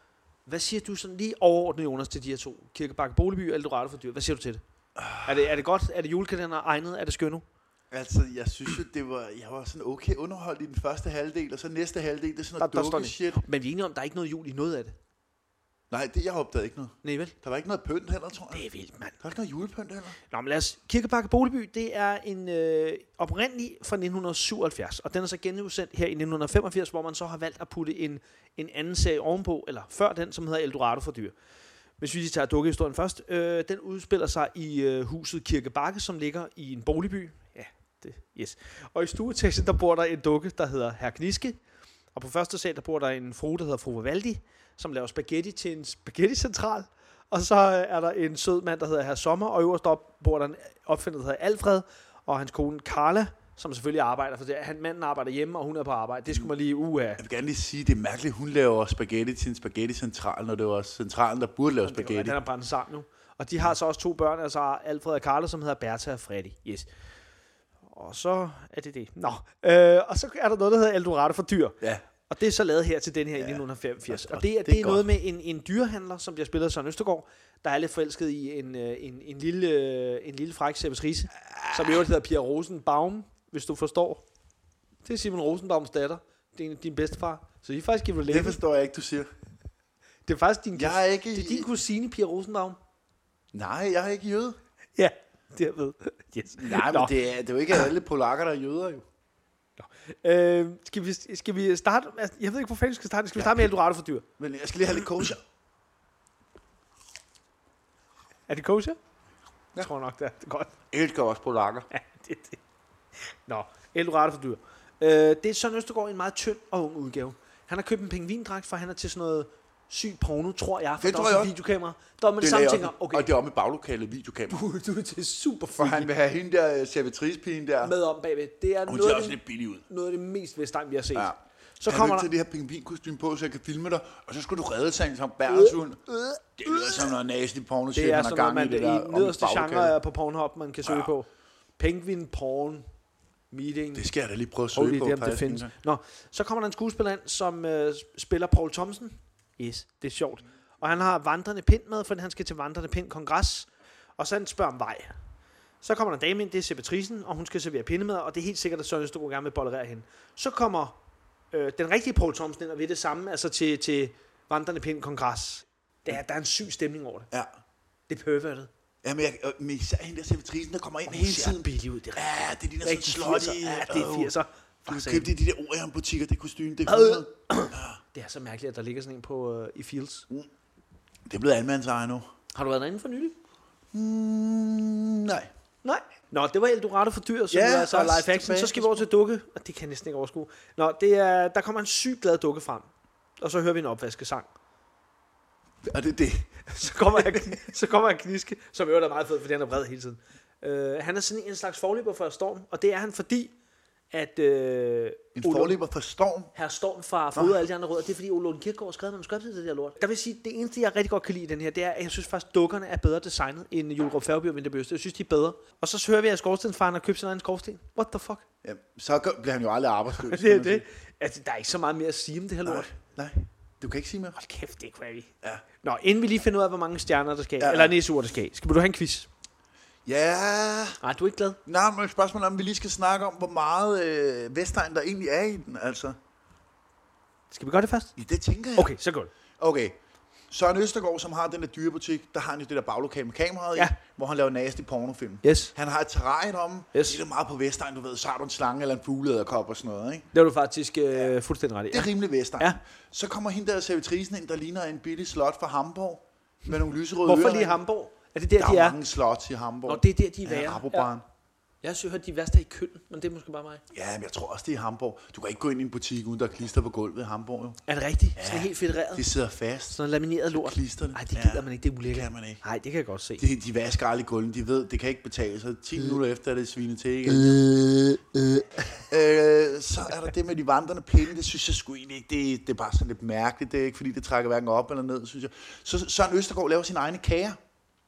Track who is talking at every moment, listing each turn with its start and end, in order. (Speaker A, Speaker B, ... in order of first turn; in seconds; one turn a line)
Speaker A: 0.5-4.6
Speaker B: 5.0-5.5
Speaker A: 5.2-7.4
Speaker B: 7.9-13.4
Speaker A: 12.6-14.9
Speaker B: 15.9-18.6
Speaker A: 17.0-17.3
Speaker A: 18.5-19.2
Speaker B: 19.2-20.2
Speaker A: 20.2-31.3
Speaker A: 32.0-41.6
Speaker A: 42.1-57.2
Speaker B: 57.2-62.4
Speaker A: 61.8-66.9
Speaker A: 67.9-84.2
Speaker B: 73.3-75.1
Speaker B: 81.5-82.0
Speaker A: 85.0-88.6
Speaker B: 88.3-89.3
Speaker A: 90.2-92.8
Speaker B: 90.8-91.7
Speaker B: 93.5-94.6
Speaker A: 95.0-97.1
Speaker B: 96.6-99.0
Speaker A: 99.8-104.2
Speaker B: 103.3-103.7
Speaker B: 104.4-105.4
Speaker A: 108.5-109.0
Speaker A: 109.8-110.7
Speaker B: 110.9-111.9
Speaker A: 111.9-112.6
Speaker A: 113.5-123.3
Speaker B: 121.0-121.5
Speaker B: 122.4-124.6
Speaker A: 124.5-126.1
Speaker B: 125.8-127.9
Speaker A: 127.8-132.3
Speaker B: 128.9-129.8
Speaker B: 131.1-136.0
Speaker A: 135.5-137.1
Speaker B: 136.6-139.9
Speaker A: 137.9-142.8
Speaker B: 140.8-141.1
Speaker A: 143.5-144.1
Speaker B: 143.9-145.7
Speaker A: 144.7-155.1
Speaker A: 155.8-161.0
Speaker A: 161.5-167.3
Speaker A: 168.1-168.7
Speaker B: 169.0-171.6
Speaker A: 171.1-175.3
Speaker B: 172.1-174.3
Speaker B: 174.9-178.0
Speaker A: 176.9-180.2
Speaker B: 181.3-182.2
Speaker A: 182.5-183.3
Speaker B: 183.9-185.5
Speaker A: 185.8-194.5
Speaker B: 187.5-189.1
Speaker B: 195.8-197.6
Speaker A: 196.7-203.5
Speaker A: 204.1-205.8
Speaker B: 205.3-206.5
Speaker A: 206.5-218.4
Speaker B: 207.3-207.6
Speaker B: 218.6-220.8
Speaker A: 220.1-222.9
Speaker B: 222.6-224.4
Speaker A: 224.3-229.3
Speaker B: 227.6-228.0
Speaker B: 230.1-231.0
Speaker A: 231.0-231.6
Speaker B: 231.7-236.2
Speaker A: 237.5-238.1
Speaker B: 238.2-238.9
Speaker A: 238.7-239.3
Speaker B: 239.6-240.0
Speaker B: 240.5-250.3
Speaker A: 245.4-245.7
Speaker A: 246.9-247.2
Speaker A: 250.3-252.8
Speaker B: 251.9-257.8
Speaker A: 257.2-259.0
Speaker B: 258.6-261.2
Speaker A: 259.9-261.1
Speaker A: 261.8-263.8
Speaker B: 263.9-267.8
Speaker A: 267.9-269.3
Speaker B: 268.4-270.0
Speaker A: 269.9-273.4
Speaker B: 270.5-272.6
Speaker B: 273.4-277.7
Speaker A: 277.3-278.6
Speaker B: 279.0-287.6